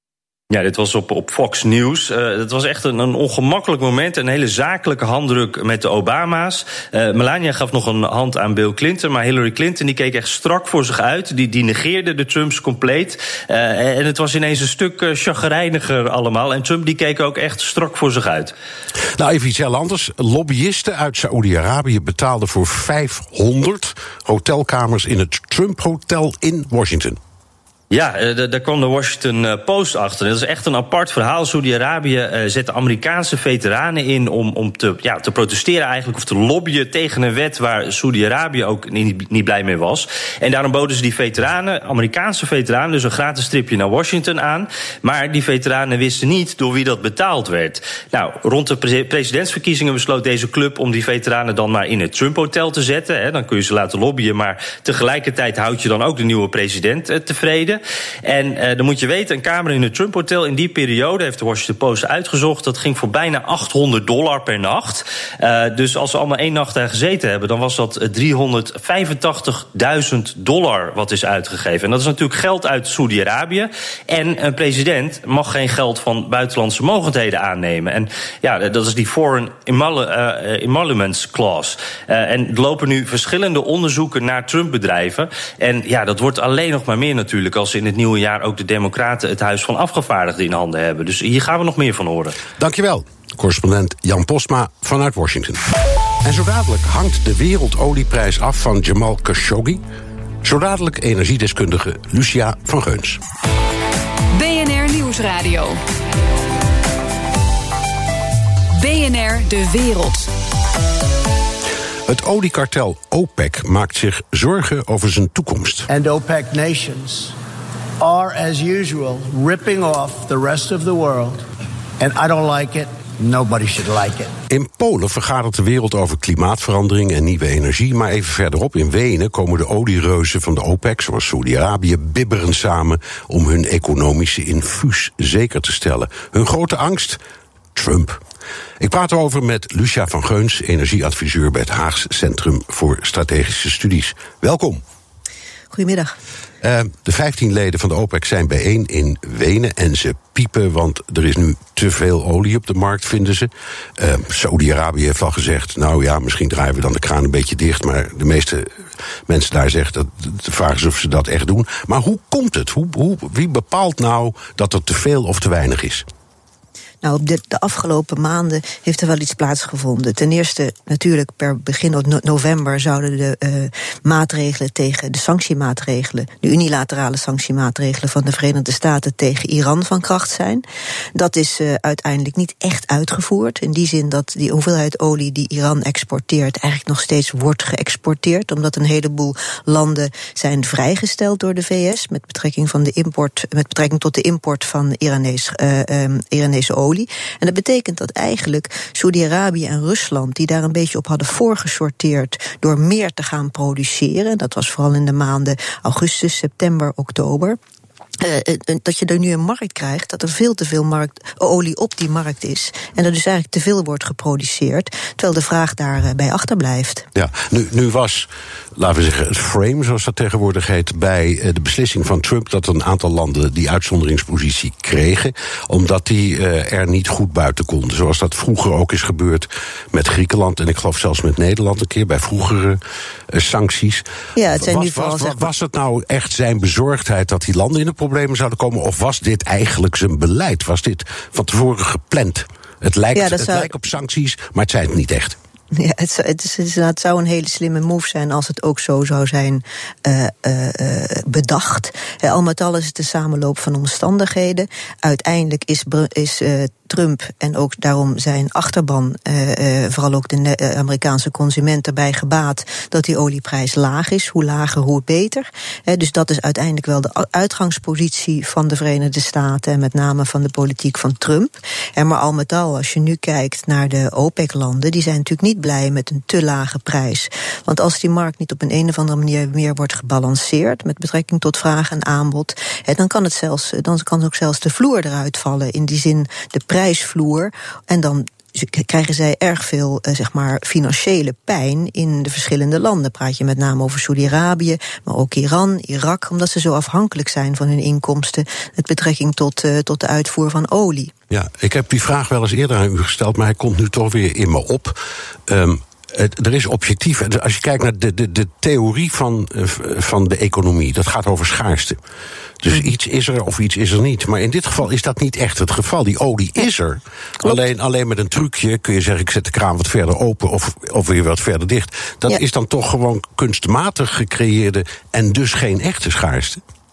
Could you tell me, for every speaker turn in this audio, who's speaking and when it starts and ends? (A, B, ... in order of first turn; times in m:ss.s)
0:00.5-0:18.5 A
0:19.2-0:27.2 B
0:27.9-1:32.4 A
1:32.6-1:35.6 B
1:36.2-1:39.8 B
1:40.4-1:43.2 B
1:44.3-1:45.8 C
1:48.8-1:50.3 C
1:52.1-1:55.9 B
1:55.9-1:57.3 D
1:58.0-2:01.4 D
2:02.0-2:04.3 D
2:04.5-2:17.2 B
2:17.7-2:18.2 B
2:18.8-2:24.8 B
2:25.7-2:26.1 E
2:26.6-2:38.7 B
2:39.3-2:46.0 B
2:47.0-3:00.6 E
3:01.1-3:27.6 E
3:28.2-3:37.1 E
3:37.1-3:52.8 B
3:53.3-4:05.4 B
3:54.4-3:55.5 E
4:03.1-4:03.7 E
4:05.7-5:01.1 E
5:01.3-5:12.0 B
5:12.6-5:26.6 B